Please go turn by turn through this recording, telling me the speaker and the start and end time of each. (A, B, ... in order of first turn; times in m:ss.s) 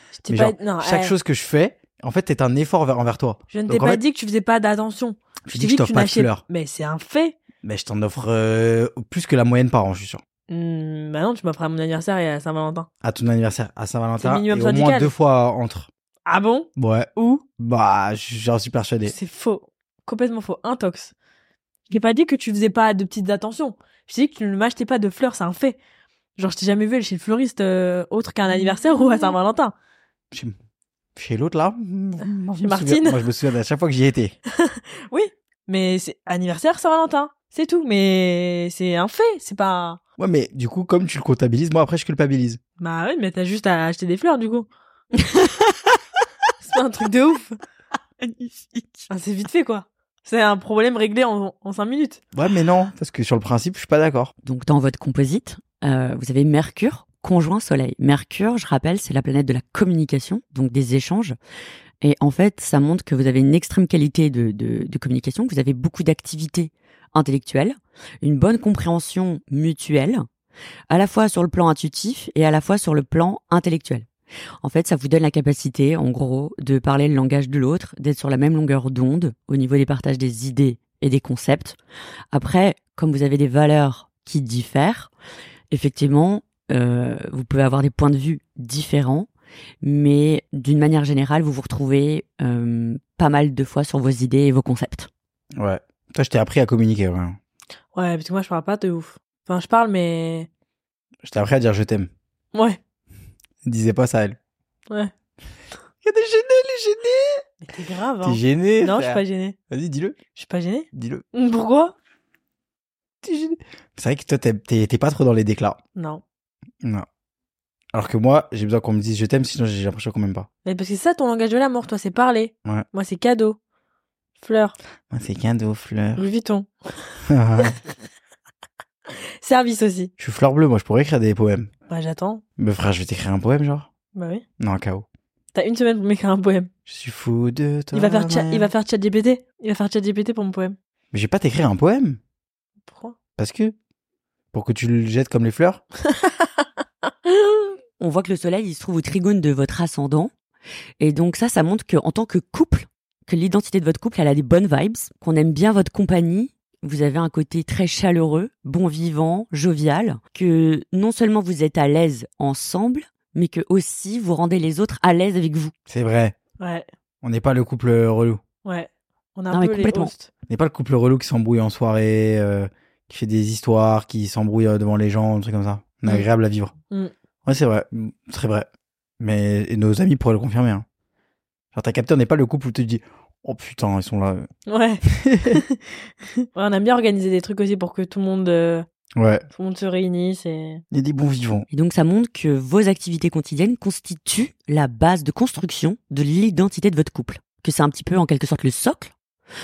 0:00.1-0:01.1 A
0:00.3-0:04.0 B
0:03.5-0:07.4 A
0:05.5-0:06.4 B
0:07.6-0:10.2 B
0:10.5-0:12.9 A
0:13.0-0:15.9 B
0:14.2-0:15.1 A
0:16.3-0:17.4 A
0:16.8-0:19.2 B
0:19.1-0:21.1 A
0:21.9-0:25.8 A
0:26.4-0:29.7 A
0:31.2-0:34.4 B
0:32.6-0:33.2 A
0:34.6-0:40.0 A
0:40.2-0:42.6 B
0:42.8-0:44.7 A
0:45.3-0:45.7 C
0:46.6-0:47.6 A
0:48.2-0:49.1 C
0:49.1-0:52.2 A
0:52.3-0:54.3 B
0:54.4-1:01.4 C
1:02.0-1:10.3 C
1:10.9-1:14.1 C
1:14.6-1:21.8 C
1:22.3-1:25.1 C
1:25.7-1:29.3 C
1:29.8-1:35.1 C
1:35.6-1:37.4 B
1:38.0-1:40.5 A
1:41.2-1:42.1 B
1:42.5-1:42.8 A
1:43.6-1:44.4 B
1:46.0-1:47.4 B
1:47.6-1:49.6 A
1:48.2-1:50.2 B
1:50.4-1:52.0 A
1:50.9-1:51.2 B
1:53.2-1:55.8 B
1:56.0-1:56.2 A
1:57.9-2:00.5 B
2:00.6-2:03.6 A
2:04.4-2:04.8 A
2:05.1-2:06.3 B
2:06.2-2:07.0 A
2:07.3-2:07.8 B
2:09.1-2:10.1 A
2:10.2-2:11.7 B
2:11.9-2:12.4 A
2:12.6-2:13.9 B
2:14.1-2:14.4 A
2:14.6-2:15.0 B
2:15.5-2:16.7 A
2:16.9-2:18.7 B
2:17.9-2:20.8 A
2:21.1-2:22.2 B
2:22.9-2:23.2 A
2:23.4-2:23.8 B
2:24.5-2:25.8 B
2:27.3-2:27.7 A
2:28.0-2:30.3 C
2:31.0-2:45.7 C
2:45.9-2:46.4 B
2:46.6-2:46.9 A
2:47.2-2:48.4 B
2:48.6-2:50.3 A
2:49.5-2:50.1 C
2:50.5-2:56.7 B
2:57.4-2:58.7 B
2:59.2-3:00.8 B
3:01.7-3:04.5 B
3:04.7-3:05.8 A
3:05.1-3:05.6 B
3:06.4-3:08.9 A
3:09.2-3:09.5 B
3:09.5-3:10.8 A
3:10.9-3:11.7 B
3:11.7-3:19.1 C